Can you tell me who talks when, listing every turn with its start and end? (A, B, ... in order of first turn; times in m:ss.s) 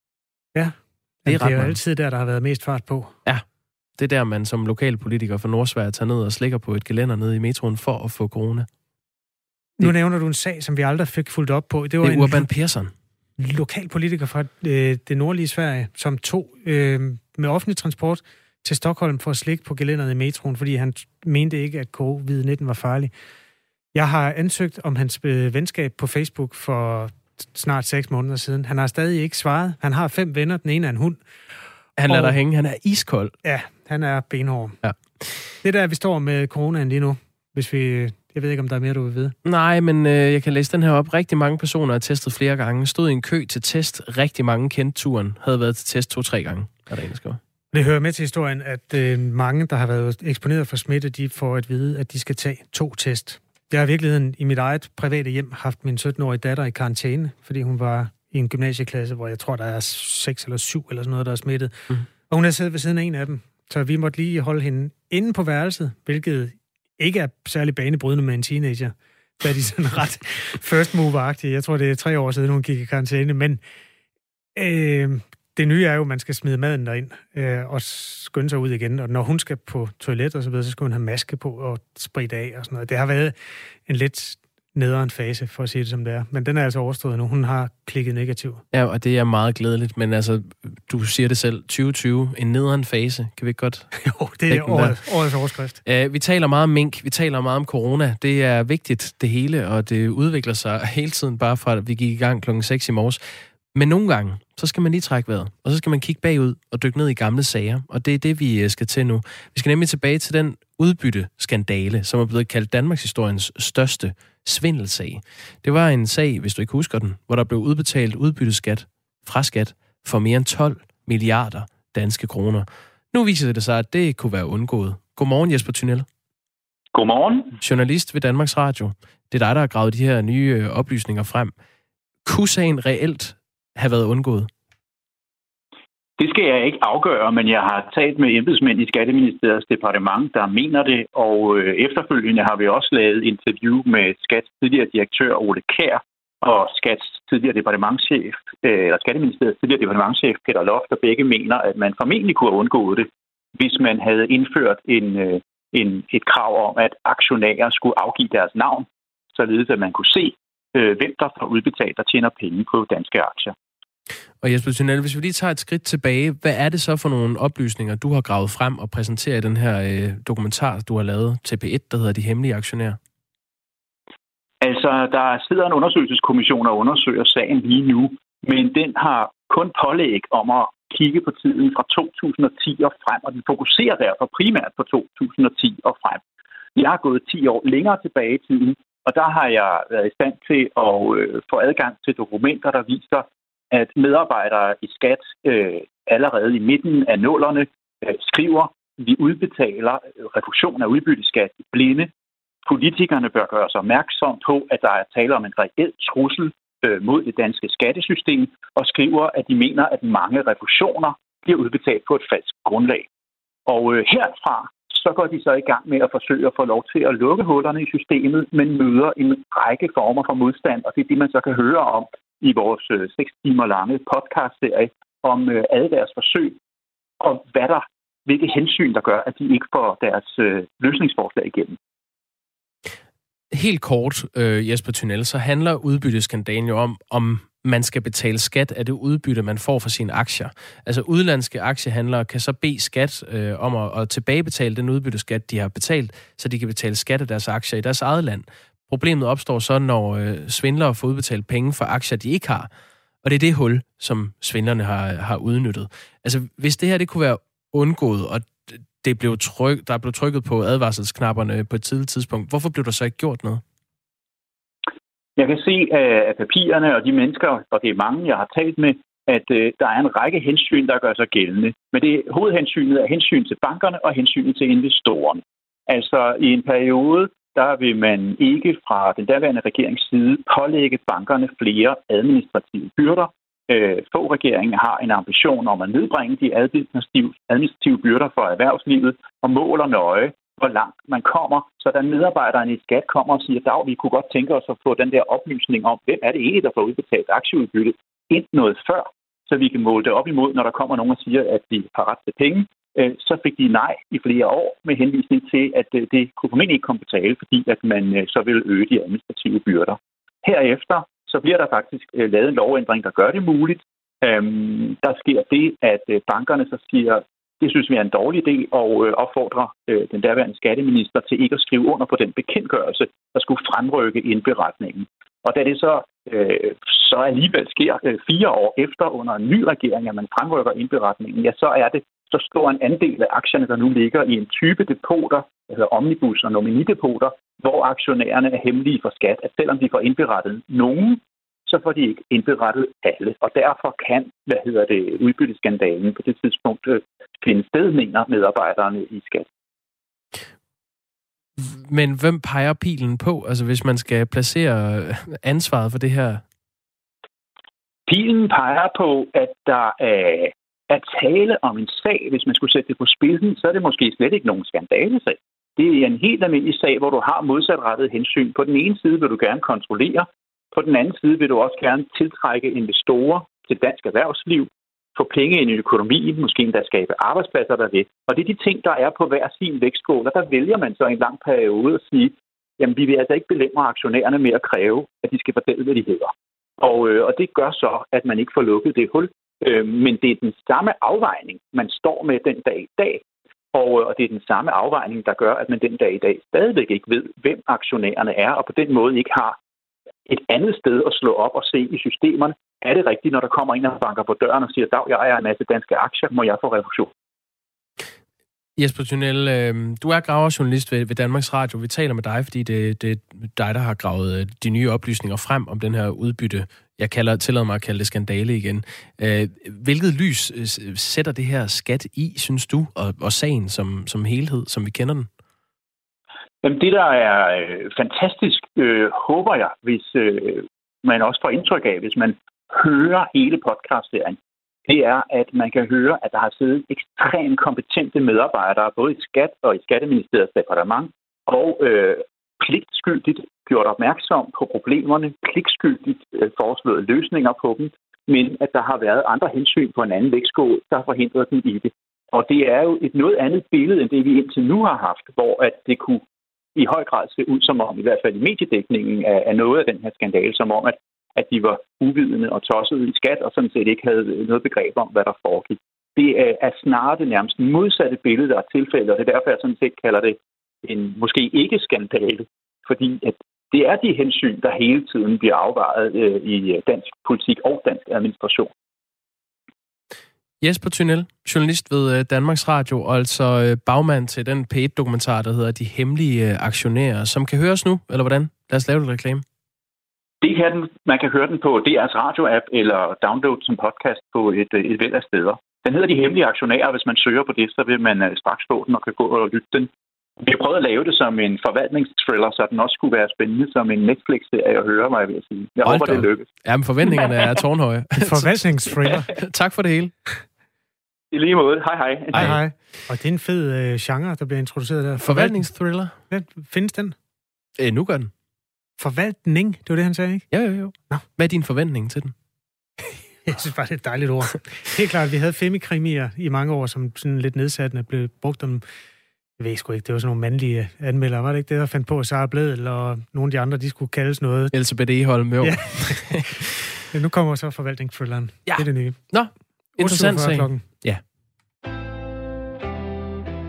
0:00.6-0:03.2 A
0:01.3-0:01.8 B
0:04.0-0:08.7 B
0:09.8-0:12.5 A
0:12.0-0:12.9 B
0:13.4-0:23.1 A
0:23.9-0:31.2 A
0:32.0-0:33.3 B
0:32.1-0:32.4 A
0:33.4-0:34.8 A
0:34.8-0:35.5 B
0:35.6-0:39.4 A
0:39.4-0:47.4 B
0:47.7-1:13.6 A
1:14.6-1:23.4 A
1:23.9-1:28.6 A
1:28.7-1:35.0 B
1:34.0-1:35.8 A
1:35.8-2:06.1 B
2:06.9-2:07.6 C
2:07.6-2:11.5 B
2:12.2-2:14.5 B
2:16.2-2:43.6 C
2:44.4-2:53.0 B
2:54.6-3:06.2 C
3:06.8-3:22.1 C
3:22.7-3:33.1 C
3:33.7-3:46.6 C
3:47.2-3:51.8 C
3:53.5-4:12.7 B
4:13.2-4:23.6 B
4:25.4-5:49.5 C
5:51.6-5:56.4 B
5:58.1-6:39.6 C
6:40.3-6:47.1 C
6:48.8-7:05.3 B
7:06.6-7:36.2 C
7:36.8-7:58.7 C
8:00.6-8:09.4 B
8:10.4-8:26.5 C
8:25.8-8:30.1 B
8:28.2-8:29.3 A
8:31.3-8:32.6 C
8:32.3-8:35.7 A
8:35.2-8:36.2 B
8:36.3-8:37.2 A
8:37.8-8:38.3 B
8:39.0-8:40.5 A
8:40.5-8:42.3 B
8:43.4-8:48.8 A
8:49.6-8:54.7 A
8:54.7-8:56.7 B
8:55.6-8:56.6 A
8:57.1-8:59.3 A
8:58.7-9:01.2 B
9:00.0-9:00.8 A